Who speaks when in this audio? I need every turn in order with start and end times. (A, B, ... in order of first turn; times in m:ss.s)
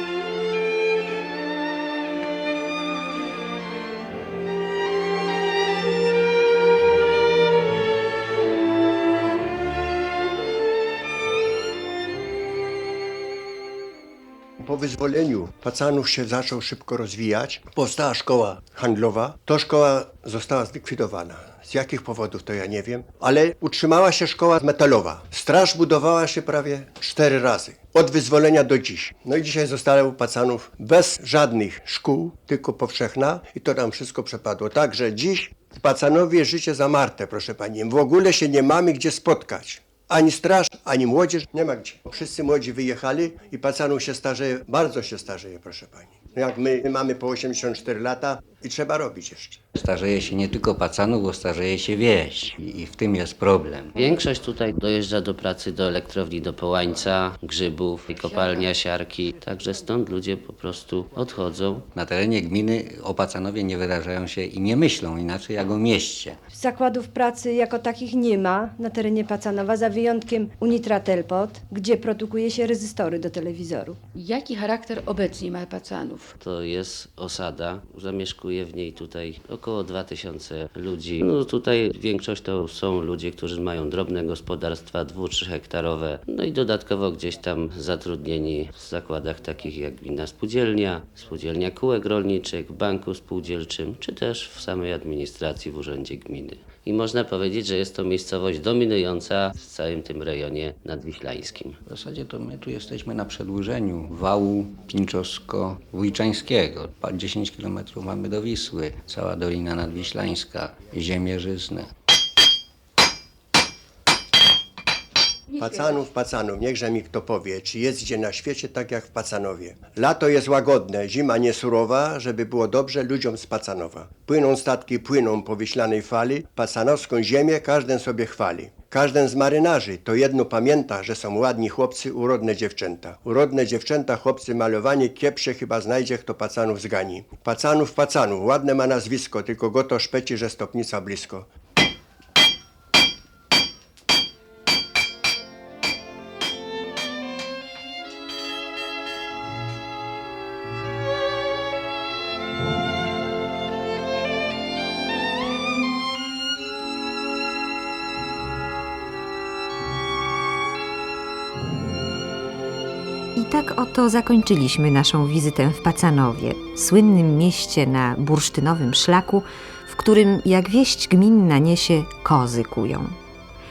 0:14.6-0:49.6 A
0:49.7-0:54.0 B
0:54.0-1:01.8 C
0:58.2-0:58.6 D
1:01.9-1:06.4 B
1:06.5-1:14.0 E
1:14.2-1:16.3 D
1:16.4-1:41.8 C
1:41.9-1:51.9 B
1:55.5-1:56.0 D
1:55.6-2:21.5 A
2:43.4-2:53.2 F